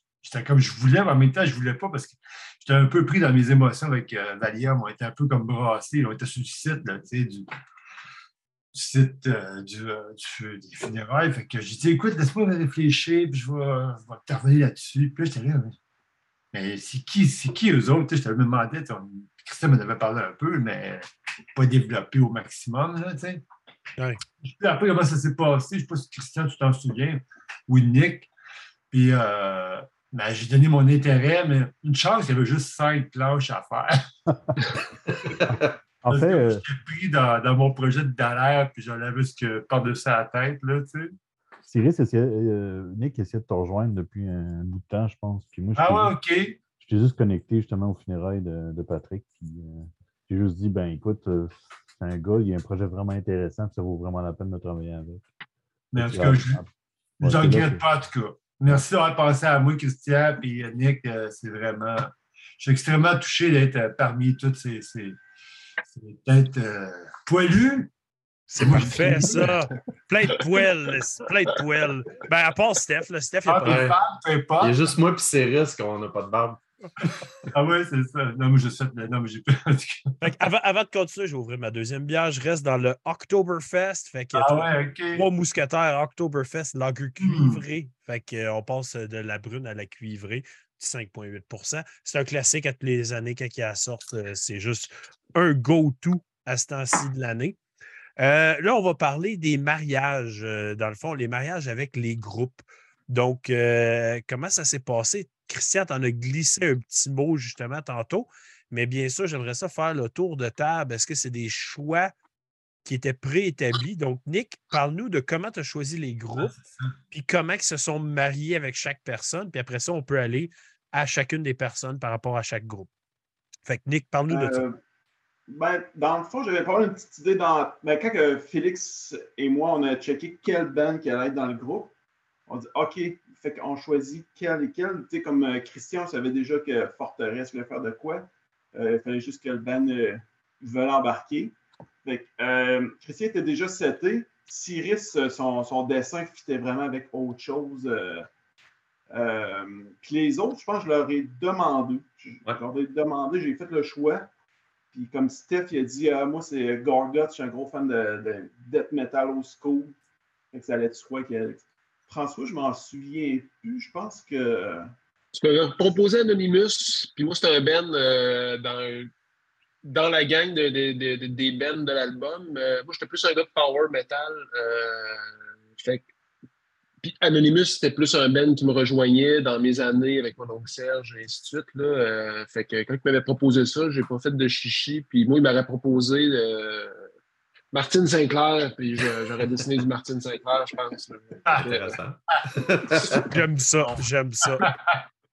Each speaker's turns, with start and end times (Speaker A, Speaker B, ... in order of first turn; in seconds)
Speaker A: 0.2-7.5, 8.7-15.8, 16.5-23.4, 24.4-28.3, 28.9-33.9, 36.1-41.2, 45.8-46.6, 55.9-56.6, 57.2-65.2, 65.9-67.9, 68.5-69.7, 73.5-74.9, 77.1-80.1, 84.3-85.2, 87.2-87.6, 116.4-116.9, 194.6-195.0
Speaker B: 35.1-35.8, 73.7-74.0, 74.6-76.6, 191.6-193.3
Speaker C: 35.5-36.6, 41.7-46.2, 46.8-55.2, 56.0-57.9
Speaker D: 68.5-74.0, 80.2-97.6, 98.2-112.1, 112.8-116.6, 117.1-122.9, 123.7-124.6, 193.2-194.7
Speaker E: 124.3-124.8, 125.5-131.9, 132.5-148.3, 149.1-154.3, 154.9-160.0, 160.5-164.9
Speaker F: 165.3-169.1, 169.8-176.1, 177.0-187.0, 187.7-192.0